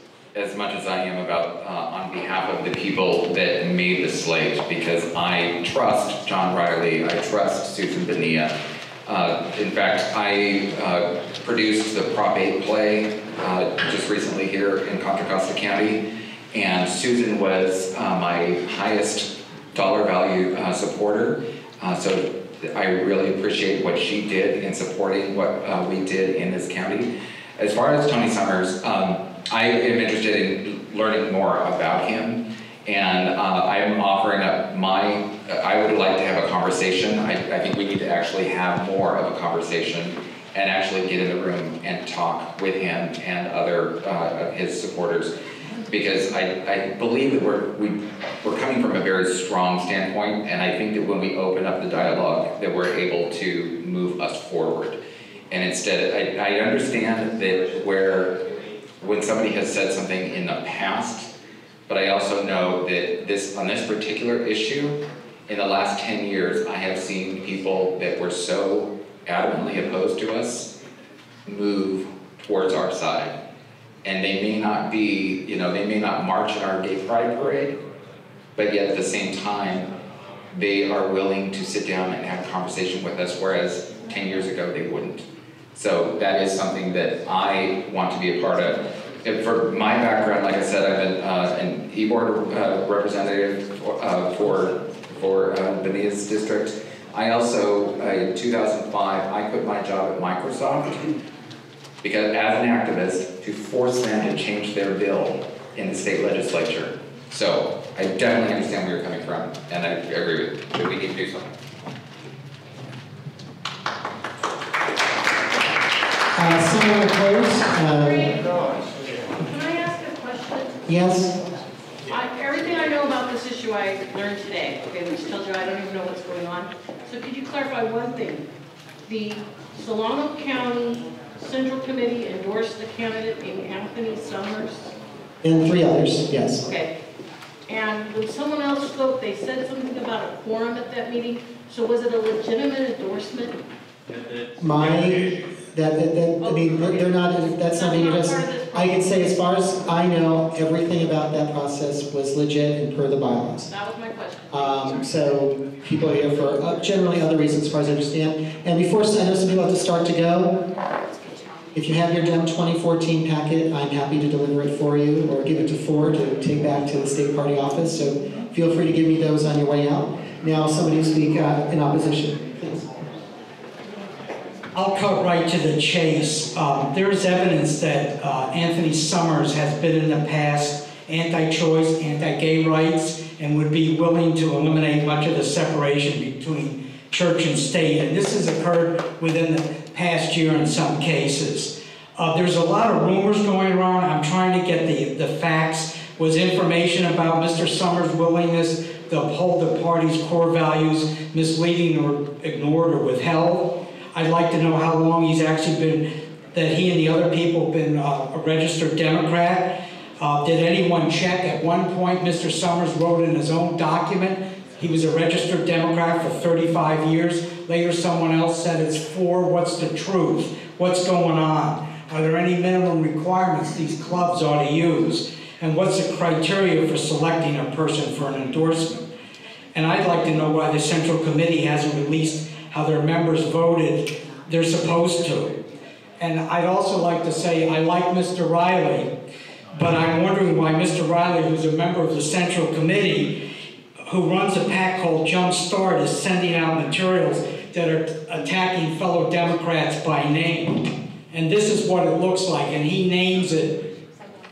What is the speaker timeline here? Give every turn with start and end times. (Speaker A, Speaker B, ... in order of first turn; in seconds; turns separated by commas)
Speaker A: 0.3-8.5, Speaker A: 9.1-45.3, Speaker A: 45.9-55.0, Speaker A: 55.5-58.4, Speaker A: 59.0-61.3, Speaker A: 61.9-70.7, Speaker A: 71.5-73.4, Speaker A: 74.0-77.8, Speaker A: 78.6-79.9, Speaker A: 80.5-101.1, Speaker A: 102.0-111.5, Speaker B: 116.4-118.4, Speaker C: 118.0-118.4, Speaker C: 119.4-120.8, Speaker B: 120.9-121.3, Speaker C: 122.1-128.5, Speaker C: 129.1-134.9, Speaker B: 135.4-136.6, Speaker C: 136.6-136.9, Speaker C: 137.7-143.6, Speaker B: 144.6-153.7, Speaker C: 146.4-149.4, Speaker C: 153.7-154.9, Speaker B: 154.5-160.6, Speaker B: 161.7-172.9, Speaker D: 174.7-229.0, Speaker D: 229.7-235.6, Speaker D: 236.2-239.1, Speaker D: 239.7-243.4, Speaker D: 244.1-253.9